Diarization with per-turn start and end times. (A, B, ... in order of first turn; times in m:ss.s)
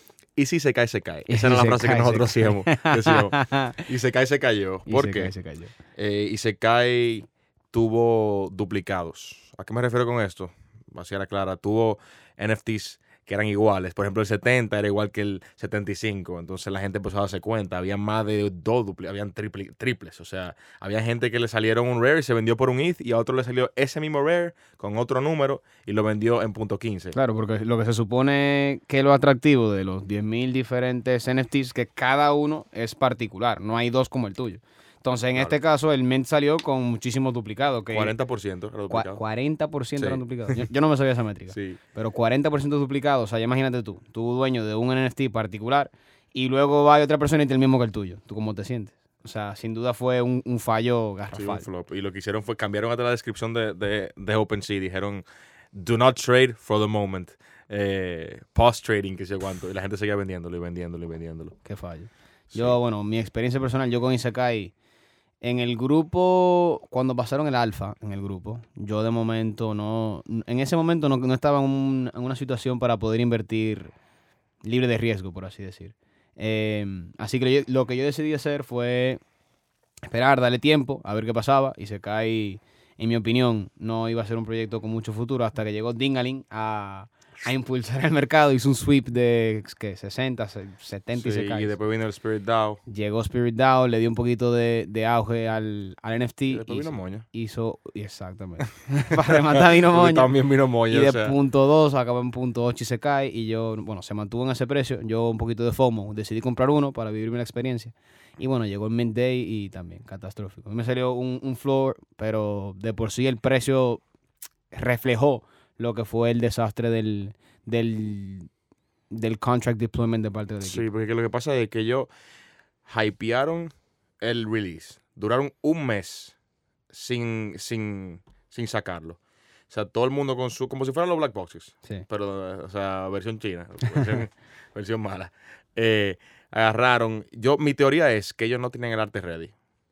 0:00.3-0:27.1 A
0:01.3-0:03.8 B
0:04.9-0:05.7 B
0:27.1-0:38.1 B
0:37.9-0:39.2 A
0:38.9-0:51.6 B
0:40.0-0:40.7 A
0:41.5-0:41.8 A
0:51.3-1:01.6 A
1:01.6-1:04.7 B
1:02.5-1:02.8 A
1:05.4-1:13.9 B
1:14.6-1:19.2 B
1:20.1-1:31.7 B
1:31.1-1:32.8 A
1:32.9-1:54.0 B
1:36.5-1:37.2 A
1:39.9-1:41.4 A
1:54.7-1:58.5 B
1:59.1-2:00.8 B
2:00.6-2:02.1 A
2:02.8-2:06.4 A
2:06.9-2:19.5 A